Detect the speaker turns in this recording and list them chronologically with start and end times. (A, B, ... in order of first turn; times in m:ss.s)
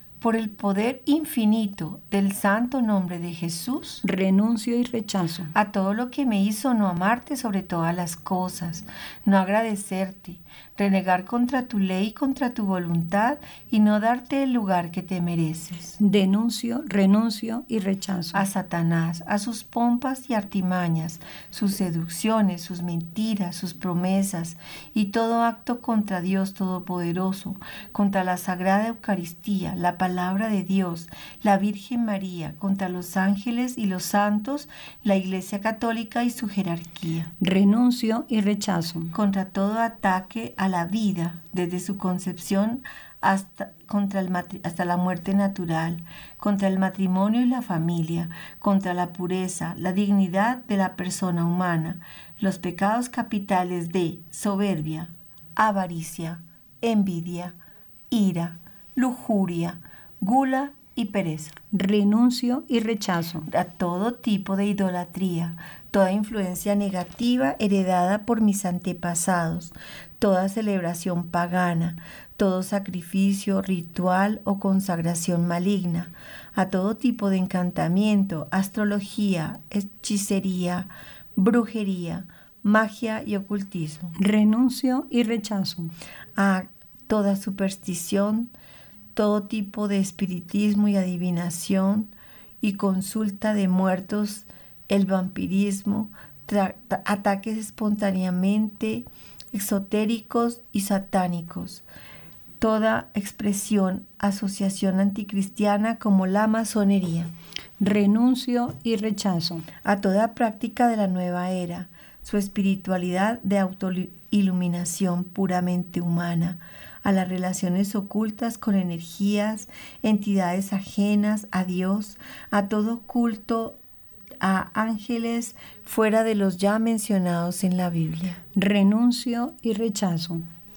0:00.2-0:04.0 A
0:04.0-0:05.5 B
0:05.5-0:16.0 A
0:16.0-0:18.4 B
0:18.3-0:37.3 A
0:37.4-0:39.1 B
0:39.1-0:57.6 A
0:58.1-1:01.6 A
1:01.7-1:03.5 B
1:03.5-1:24.1 A
1:24.2-1:25.9 B
1:26.4-1:28.5 A
1:29.1-1:41.8 A
1:42.6-1:47.3 A
1:47.8-1:49.6 B
1:49.8-2:03.8 A
2:04.4-2:08.4 A
2:08.5-2:10.4 B